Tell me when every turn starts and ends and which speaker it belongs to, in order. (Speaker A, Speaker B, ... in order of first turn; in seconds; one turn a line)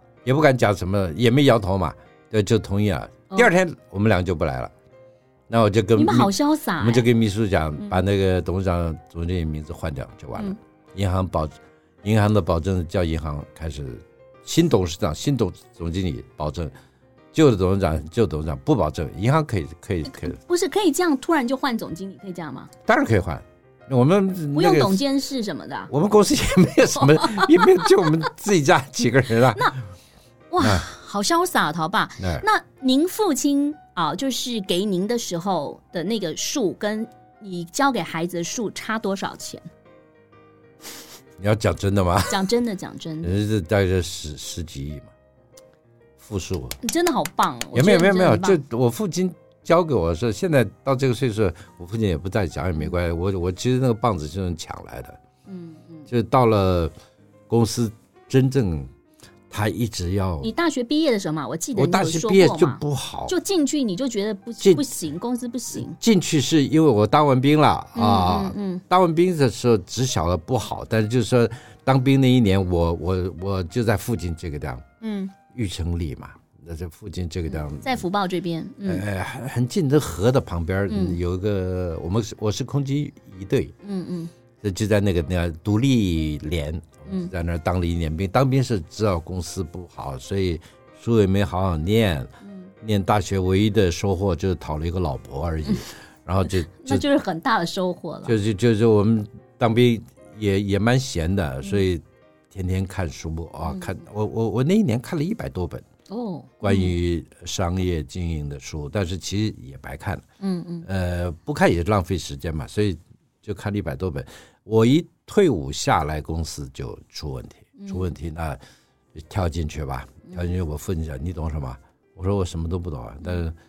Speaker A: 0.2-4.7
Speaker A: 5.5-16.7
Speaker B: 6.0-7.1
Speaker A: 17.3-20.4
Speaker B: 20.1-22.7
Speaker A: 22.9-25.0
Speaker B: 24.6-25.9
Speaker A: 25.9-29.7
Speaker B: 27.0-28.2
Speaker B: 30.5-39.7
Speaker A: 30.6-30.9
Speaker A: 32.2-32.5
Speaker A: 41.4-42.5
Speaker B: 42.3-43.4
Speaker A: 43.2-45.1
Speaker A: 46.2-46.8
Speaker B: 46.8-48.6
Speaker A: 47.7-55.2
Speaker B: 55.5-56.1
Speaker A: 56.1-56.9
Speaker A: 57.5-58.9
Speaker A: 59.5-60.5
Speaker B: 60.4-66.0
Speaker A: 61.8-63.4
Speaker A: 64.6-64.9
Speaker A: 65.7-74.8
Speaker B: 68.0-68.8
Speaker B: 75.0-75.3
Speaker A: 75.5-78.0
Speaker B: 77.8-79.0
Speaker A: 78.8-83.8
Speaker B: 80.9-81.2
Speaker B: 83.8-84.3
Speaker A: 84.6-97.0
Speaker B: 92.4-92.7
Speaker B: 96.5-98.3
Speaker A: 98.2-105.9
Speaker B: 103.7-104.0
Speaker B: 106.1-107.0
Speaker A: 106.6-110.2
Speaker B: 110.4-110.9
Speaker A: 110.8-118.6
Speaker B: 117.8-118.1
Speaker A: 119.2-123.5